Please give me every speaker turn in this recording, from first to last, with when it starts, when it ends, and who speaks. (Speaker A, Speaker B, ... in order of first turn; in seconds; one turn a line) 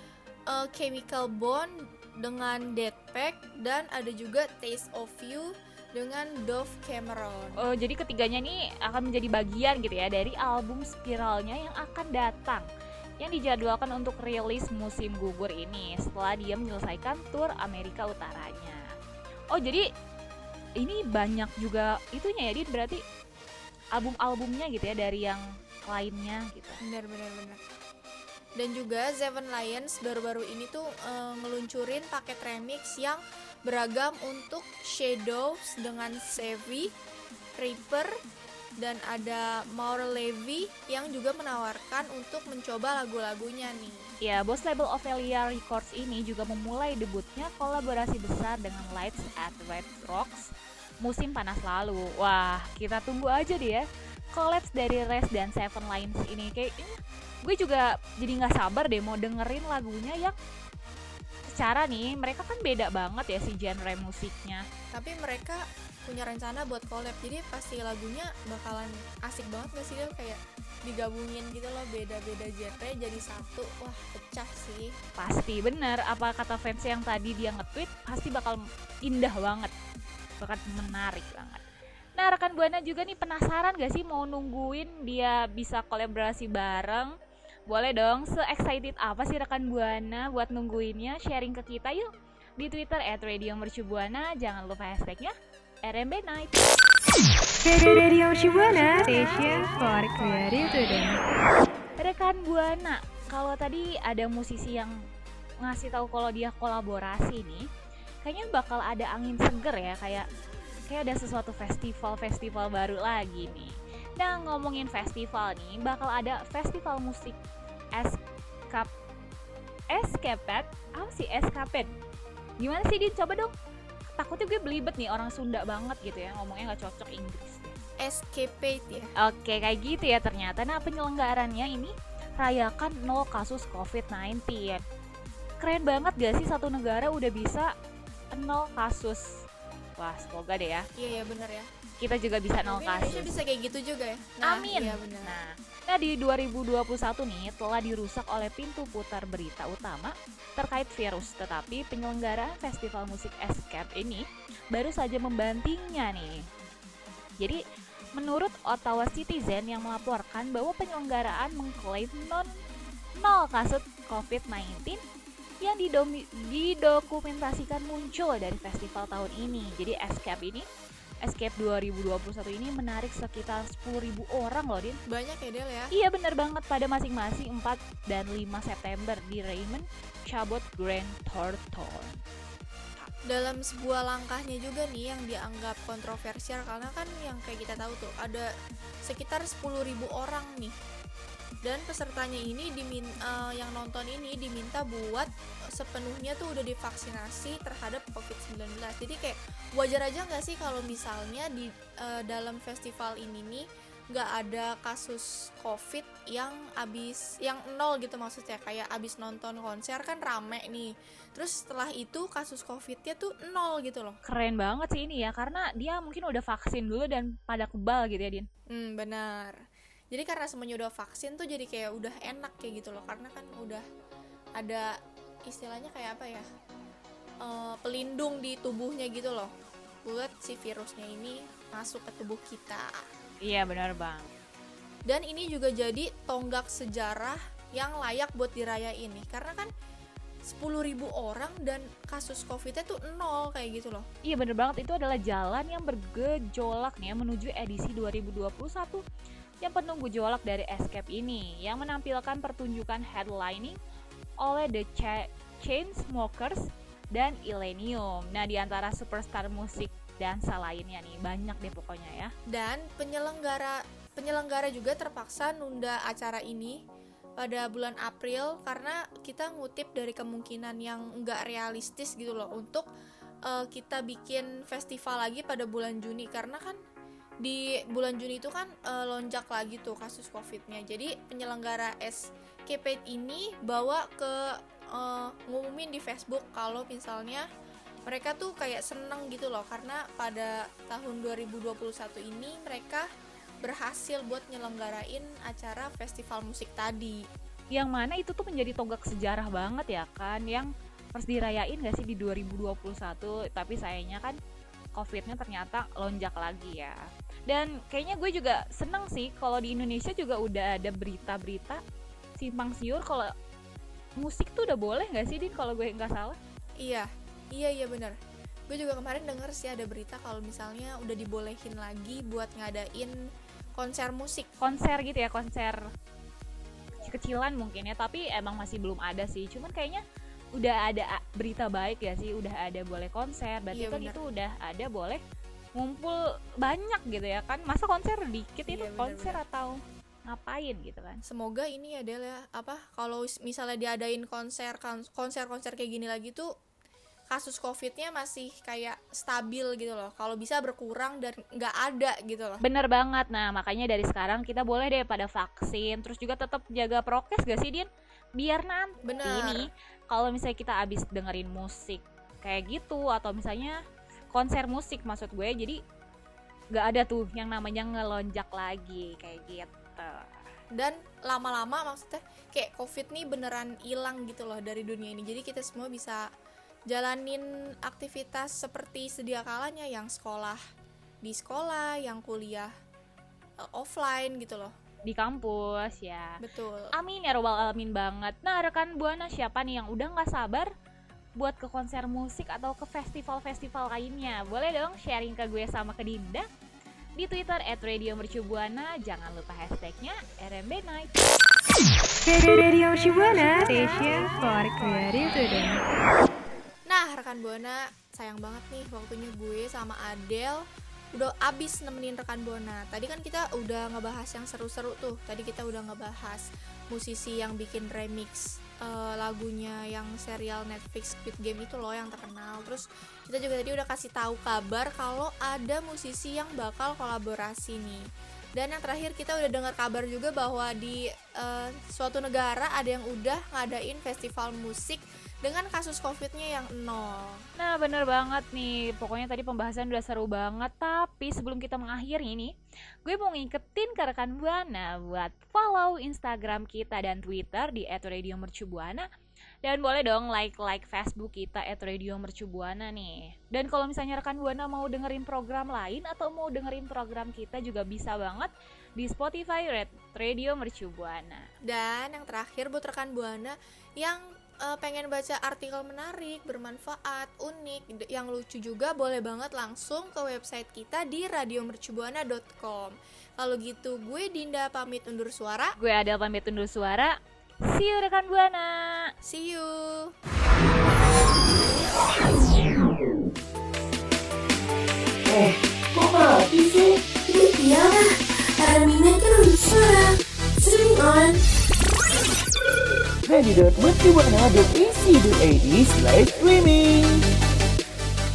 Speaker A: 0.5-7.6
Speaker B: 7.6-12.7
Speaker B: 13.2-18.8
Speaker B: 19.5-19.8
Speaker B: 20.8-23.0
Speaker B: 23.9-26.8
Speaker A: 26.8-27.6
Speaker A: 28.6-36.9
Speaker A: 37.6-38.1
Speaker A: 38.8-44.1
Speaker B: 44.2-60.4
Speaker B: 61.5-64.6
Speaker A: 64.9-74.9
Speaker B: 75.2-79.7
Speaker B: 80.4-81.6
Speaker B: 82.2-87.1
Speaker B: 87.7-92.1
Speaker B: 92.6-95.3
Speaker B: 95.8-96.7
Speaker C: 97.6-101.2
Speaker B: 102.0-104.9
Speaker B: 105.6-107.6
Speaker B: 108.2-110.3
Speaker B: 110.9-117.4
Speaker B: 119.9-121.9
Speaker B: 122.6-123.5
Speaker B: 124.2-127.7
Speaker A: 128.0-129.1
Speaker B: 129.2-134.8
Speaker B: 135.6-137.7
Speaker B: 138.3-139.2
Speaker B: 140.0-140.8
Speaker A: 140.9-141.7
Speaker B: 142.0-143.3
Speaker A: 142.6-145.4
Speaker B: 144.4-156.3
Speaker B: 158.2-162.5
Speaker B: 163.2-165.0
Speaker B: 165.6-170.7
Speaker B: 171.2-175.0
Speaker A: 175.1-175.9
Speaker B: 175.9-182.2
Speaker A: 183.2-188.5
Speaker A: 189.0-190.8
Speaker A: 191.6-214.2
Speaker B: 214.2-218.4
Speaker A: 218.7-219.6
Speaker A: 220.1-223.8
Speaker A: 224.6-224.9
Speaker A: 225.5-226.4
Speaker A: 227.4-229.5
Speaker A: 230.0-233.0
Speaker B: 233.4-234.3
Speaker A: 235.1-239.7
Speaker A: 240.4-244.0
Speaker B: 244.2-249.0
Speaker B: 249.6-253.8
Speaker B: 254.4-256.6
Speaker B: 257.1-262.3
Speaker A: 262.5-266.8
Speaker A: 267.4-272.9
Speaker A: 273.4-276.8
Speaker A: 277.4-284.4
Speaker A: 284.9-287.4
Speaker A: 288.1-293.1
Speaker A: 293.6-297.2
Speaker B: 297.7-304.4
Speaker B: 304.9-311.8
Speaker B: 312.4-313.3
Speaker B: 314.2-316.4
Speaker A: 316.8-318.2
Speaker A: 318.7-323.1
Speaker A: 323.8-324.5
Speaker B: 324.6-325.8
Speaker B: 327.0-330.0
Speaker B: 330.6-335.2
Speaker A: 333.7-334.2
Speaker B: 335.7-341.2
Speaker A: 338.6-339.4
Speaker A: 341.3-346.5
Speaker A: 347.3-352.6
Speaker B: 352.6-363.8
Speaker A: 359.0-359.7
Speaker B: 364.3-365.8
Speaker B: 366.7-370.3
Speaker A: 370.7-376.2
Speaker A: 376.9-380.6
Speaker A: 381.2-382.7
Speaker A: 383.6-384.7
Speaker B: 385.1-386.3
Speaker A: 386.4-386.9
Speaker B: 386.9-390.7
Speaker B: 391.4-396.4
Speaker B: 397.2-401.1
Speaker C: 402.2-405.8
Speaker A: 406.9-428.0
Speaker A: 428.6-437.4
Speaker B: 437.6-442.5
Speaker B: 443.0-449.1
Speaker B: 449.6-461.4
Speaker A: 461.6-475.7
Speaker B: 475.8-477.1
Speaker B: 477.7-479.1
Speaker A: 479.2-480.1
Speaker D: 485.3-487.0
Speaker E: 487.3-488.1
Speaker E: 488.6-490.0
Speaker E: 490.6-491.4
Speaker D: 493.2-497.2